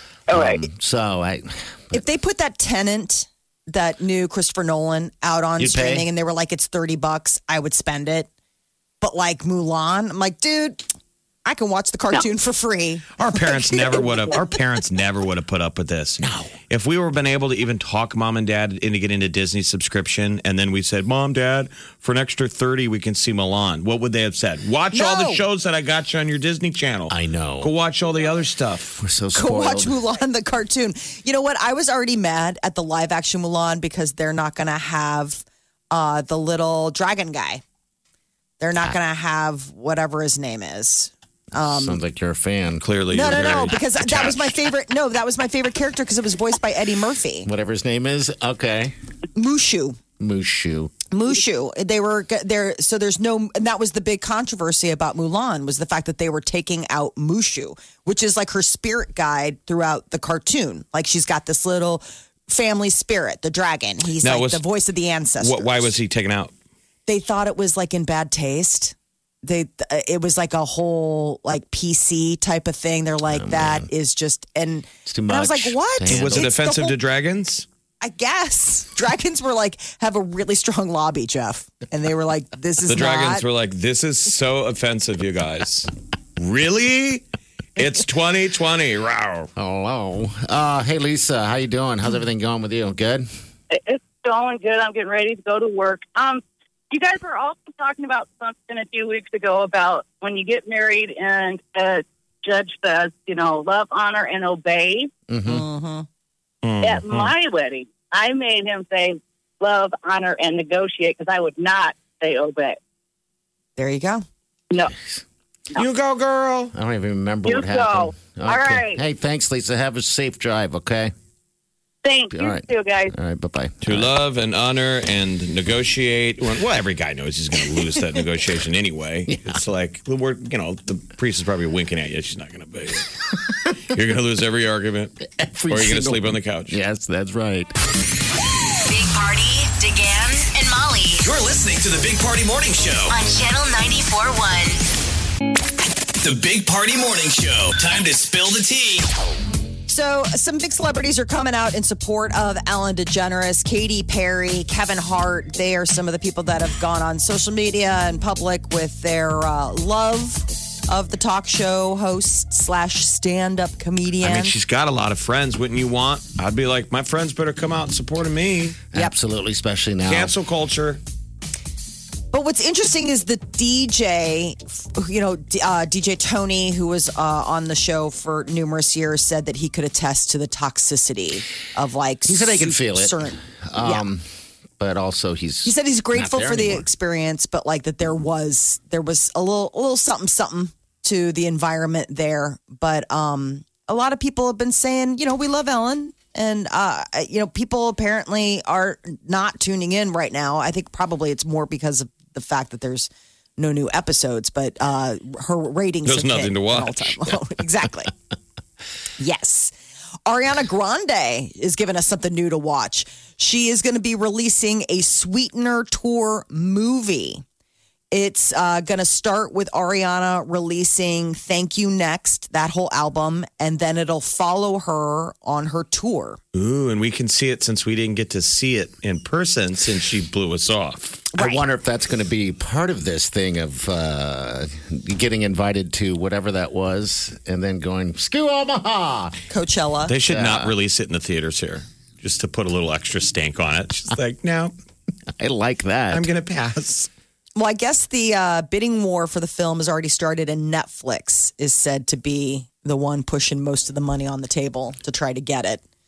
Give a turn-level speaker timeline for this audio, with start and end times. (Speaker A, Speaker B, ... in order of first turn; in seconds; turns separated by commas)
Speaker A: 0.3-2.0, Speaker B: 0.3-0.6, Speaker C: 1.9-8.3, Speaker A: 5.6-6.1, Speaker C: 9.0-10.8, Speaker C: 11.4-14.0, Speaker D: 13.2-29.0, Speaker A: 16.2-16.5, Speaker C: 24.9-25.4, Speaker A: 27.1-27.7, Speaker A: 29.0-30.0, Speaker C: 29.3-37.6, Speaker C: 38.6-42.0, Speaker A: 41.6-42.8, Speaker D: 42.8-44.7, Speaker C: 43.1-47.5, Speaker A: 47.4-48.9, Speaker C: 49.4-50.0, Speaker A: 50.2-50.9, Speaker C: 51.1-65.9, Speaker D: 64.2-64.6, Speaker D: 65.4-66.5, Speaker C: 67.1-76.9, Speaker A: 73.3-73.9, Speaker A: 75.0-76.5, Speaker D: 76.1-77.7, Speaker C: 78.0-83.4, Speaker D: 82.9-87.2, Speaker D: 87.8-89.5, Speaker A: 89.5-93.3, Speaker B: 93.7-105.1, Speaker A: 105.3-105.6, Speaker C: 105.5-106.0, Speaker D: 106.6-107.3, Speaker B: 106.8-112.8, Speaker C: 113.8-114.2, Speaker A: 114.9-115.2, Speaker D: 115.7-116.7, Speaker A: 116.7-121.1, Speaker B: 117.4-119.0, Speaker B: 122.0-123.1, Speaker A: 122.3-124.1, Speaker D: 123.8-133.1, Speaker A: 129.3-129.6, Speaker D: 133.9-135.1, Speaker A: 135.4-137.7, Speaker D: 135.7-136.8, Speaker E: 138.8-141.2, Speaker F: 141.2-143.2, Speaker E: 143.1-144.8, Speaker F: 146.2-149.1, Speaker C: 149.9-164.5, Speaker D: 164.2-168.8, Speaker A: 168.9-170.3, Speaker D: 170.0-171.0, Speaker C: 172.3-184.0, Speaker A: 182.3-184.2, Speaker A: 184.8-186.8, Speaker C: 185.6-208.1, Speaker D: 206.0-207.1, Speaker C: 209.2-209.7, Speaker C: 210.2-217.4, Speaker C: 218.1-226.4, Speaker D: 226.5-231.3, Speaker C: 231.3-231.6, Speaker A: 231.3-239.4, Speaker C: 239.5-240.1, Speaker D: 240.1-244.7, Speaker A: 240.2-240.7, Speaker A: 245.4-246.3, Speaker D: 246.1-247.1, Speaker C: 247.6-255.8